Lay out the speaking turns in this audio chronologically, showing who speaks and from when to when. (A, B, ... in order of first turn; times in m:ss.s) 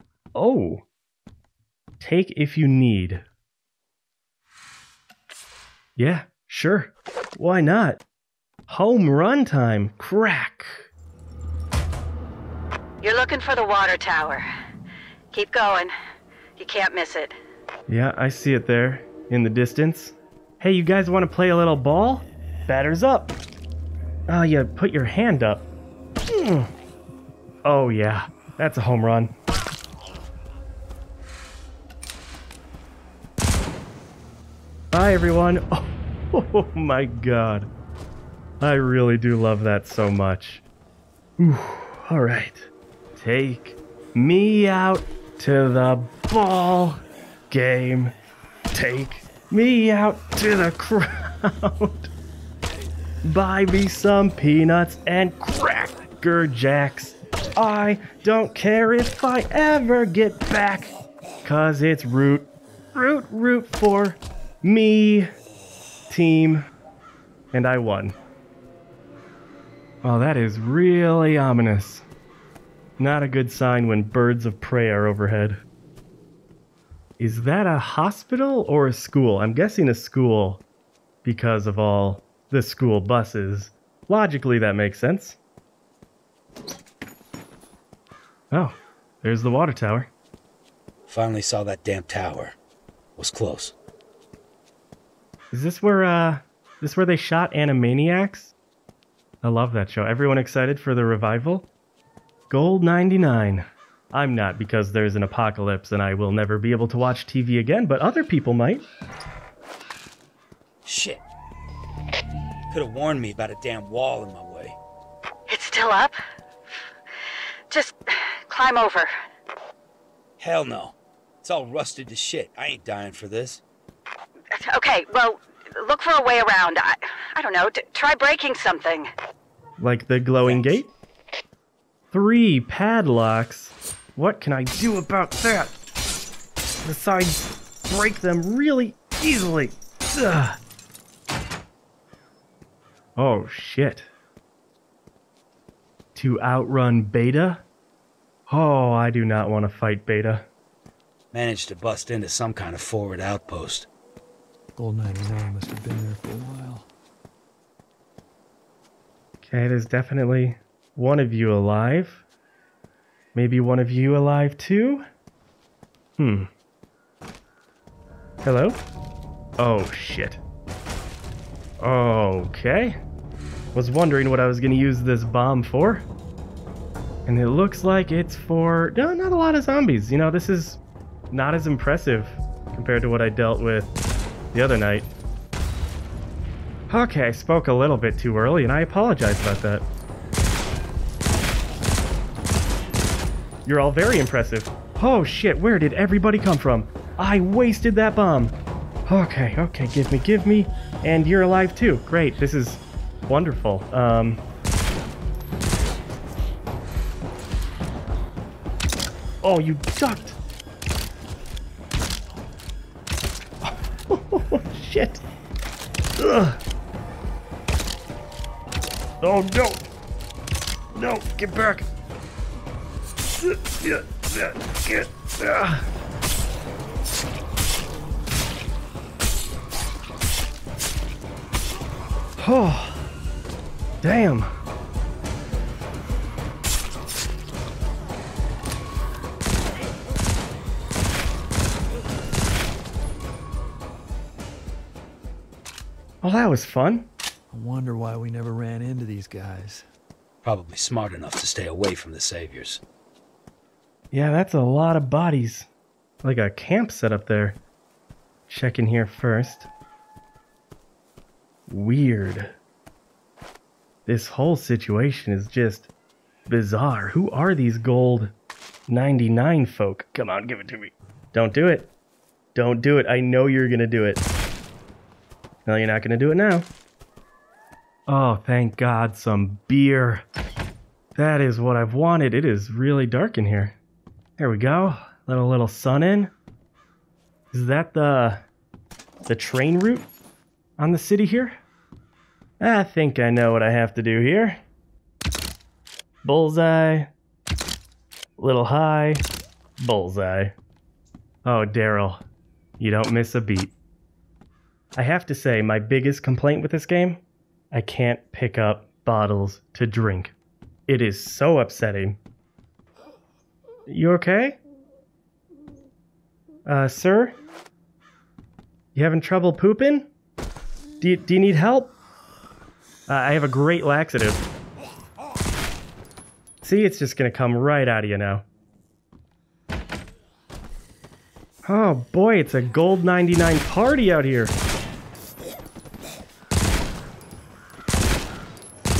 0:00.3-0:00.8 A
0:02.0-0:03.2 A
0:06.0-0:08.0 A
0:08.7-0:10.9 A
0:13.0-0:14.4 B
0:15.3-0:15.9 B
0:16.6-0:17.3 B
0:17.9-0:23.3 A
0:24.3-0:25.7 A
0:26.3-0:26.7 A
0:27.6-0:29.3 A
0:34.9-0:37.7 A
0:38.6-0:40.6 A
0:41.4-0:48.2 A
0:48.7-0:52.1 A
0:53.2-1:00.9 A
1:01.4-1:05.3 A
1:06.1-1:06.7 A
1:07.5-1:08.2 A
1:10.0-1:12.0 A
1:13.0-1:15.6 A
1:17.2-1:20.6 A
1:21.2-1:25.4 A
1:28.5-1:30.1 A
1:31.1-1:32.5 C
1:33.2-1:33.7 C
1:35.5-1:38.5 A
1:39.4-1:41.7 A
1:42.5-1:48.8 A
1:50.8-1:51.2 C
1:52.7-1:54.8 C
1:55.5-1:56.1 B
1:57.7-1:59.1 B
2:00.4-2:03.6 C
2:04.5-2:09.1 B
2:09.8-2:10.9 A
2:10.4-2:10.7 C
2:12.1-2:15.7 A
2:16.8-2:20.6 A
2:23.2-2:24.1 A
2:26.1-2:27.6 A
2:28.5-2:30.5 A
2:31.3-2:33.9 C
2:34.8-2:36.9 D
2:39.4-2:42.2 A
2:43.3-2:45.0 A
2:46.2-2:46.5 A
2:48.4-2:48.8 A
2:49.6-2:50.4 A
2:51.8-2:53.0 A
2:53.7-2:56.0 A
2:57.2-3:00.8 A
3:01.3-3:03.9 A
3:04.5-3:05.1 A
3:06.9-3:09.8 A
3:13.6-3:18.5 A
3:19.1-3:24.4 A
3:29.4-3:30.4 A
3:33.6-3:35.2 A
3:36.2-3:36.6 A
3:39.2-3:39.8 A
3:40.9-3:41.8 A
3:43.4-3:45.8 A
3:52.4-3:53.0 A
3:54.0-3:54.5 A
4:06.2-4:07.1 A
4:07.5-4:09.8 D
4:10.4-4:12.8 C
4:14.1-4:15.7 A
4:16.2-4:17.6 A
4:18.5-4:19.7 A
4:21.7-4:22.6 A
4:24.0-4:25.9 A
4:26.5-4:28.3 A
4:28.9-4:31.9 A
4:32.5-4:34.2 A
4:35.6-4:36.7 A
4:38.1-4:40.2 A
4:41.2-4:43.8 A
4:44.4-4:46.3 A
4:47.5-4:48.4 A
4:49.3-4:50.1 A
4:50.8-4:51.6 A
4:52.6-4:54.6 A
4:56.2-4:57.1 A
4:58.4-4:59.2 A
4:59.8-5:00.5 A
5:01.4-5:02.2 A
5:02.8-5:03.7 A
5:05.0-5:07.2 A
5:07.7-5:10.3 A
5:10.9-5:12.2 A
5:13.9-5:14.6 A
5:16.6-5:17.4 A
5:18.9-5:20.1 A
5:21.0-5:21.9 A
5:23.1-5:24.4 A
5:26.6-5:28.4 A
5:31.6-5:34.5 A